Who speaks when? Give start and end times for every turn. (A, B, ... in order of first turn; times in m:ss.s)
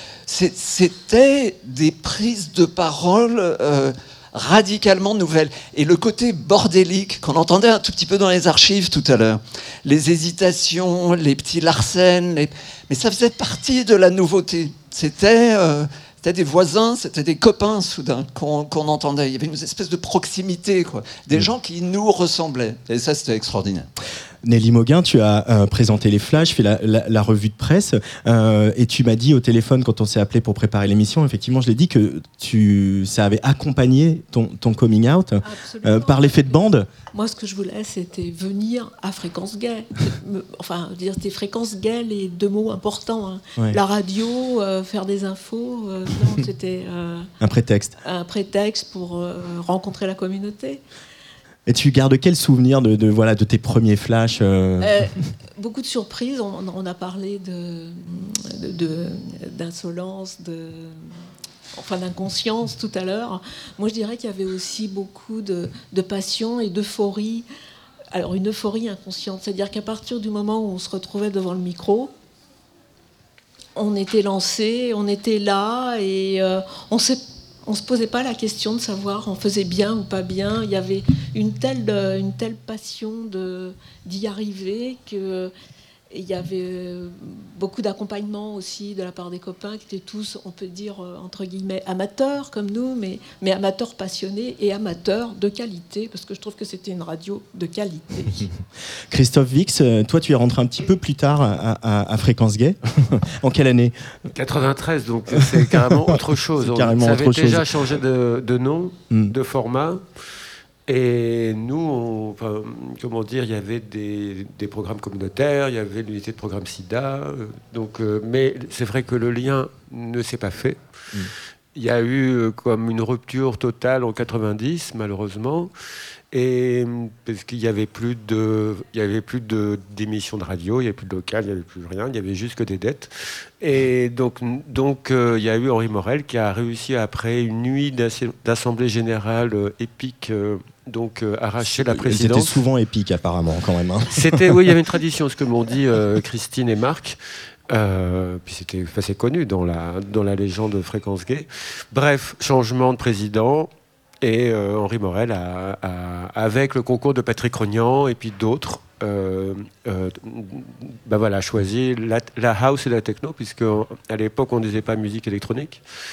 0:00.3-0:23.9 A
0:24.4-0:36.9 B
0:35.4-0:36.6 C
0:37.1-0:47.3 C
0:47.4-0:47.9 B
0:48.0-0:50.8 C
0:51.7-0:54.9 B
0:54.8-1:01.0 C
1:01.7-1:07.5 C
1:08.1-1:12.1 C
1:13.8-1:25.5 C
1:26.1-1:38.5 C
1:39.1-1:44.0 B
1:44.3-1:50.0 D
1:45.3-1:47.8 B
1:50.9-2:00.8 D
2:01.8-2:05.7 D
2:06.3-2:22.6 D
2:21.6-2:24.6 B
2:24.1-2:27.2 D
2:27.7-2:33.7 D
2:34.2-2:45.8 D